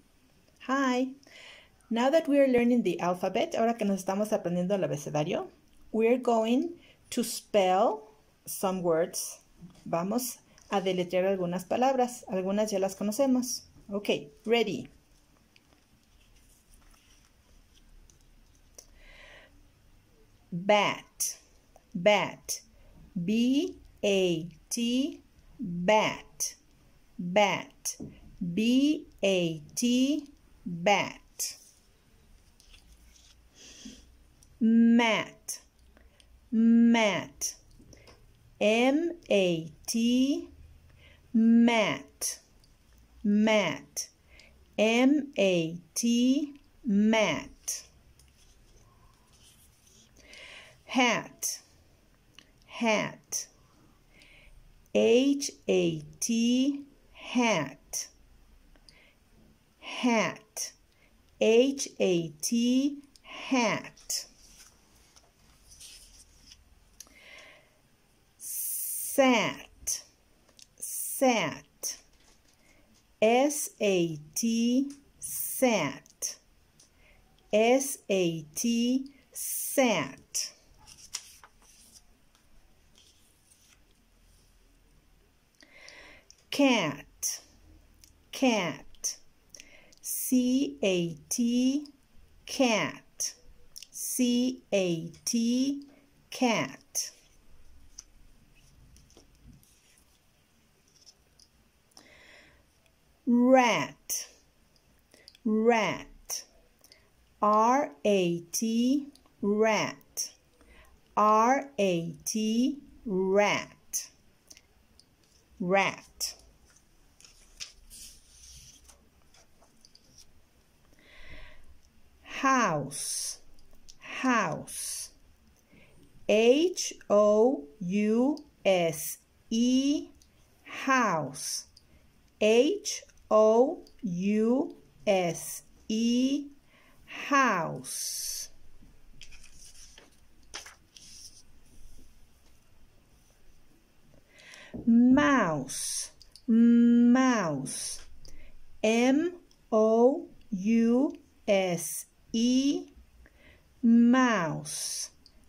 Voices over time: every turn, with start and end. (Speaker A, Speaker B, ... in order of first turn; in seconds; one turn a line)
Speaker A: 0.6-1.1
Speaker A: 1.9-14.9
Speaker A: 20.5-21.4
Speaker A: 21.9-22.6
Speaker A: 23.1-26.6
Speaker A: 27.2-31.6
Speaker A: 34.6-35.6
Speaker A: 36.5-37.6
Speaker A: 38.6-40.5
Speaker A: 41.3-42.4
Speaker A: 43.2-44.1
Speaker A: 44.8-47.9
Speaker A: 50.9-51.6
Speaker A: 52.7-53.5
Speaker A: 54.9-58.1
Speaker A: 59.8-60.7
Speaker A: 61.4-64.3
Speaker A: 68.4-70.0
Speaker A: 70.8-72.0
Speaker A: 73.2-76.4
Speaker A: 77.5-80.5
Speaker A: 86.5-87.4
Speaker A: 88.3-89.2
Speaker A: 90.0-91.9
Speaker A: 92.4-93.3
Speaker A: 93.9-97.1
Speaker A: 103.2-104.3
Speaker A: 105.4-106.5
Speaker A: 107.4-110.3
Speaker A: 111.2-114.1
Speaker A: 115.6-116.4
Speaker A: 122.2-123.4
Speaker A: 124.0-125.1
Speaker A: 126.3-130.1
Speaker A: 130.6-131.7
Speaker A: 132.4-136.5
Speaker A: 137.1-138.5
Speaker A: 144.8-148.0
Speaker A: 148.8-152.9
Speaker A: 153.8-155.1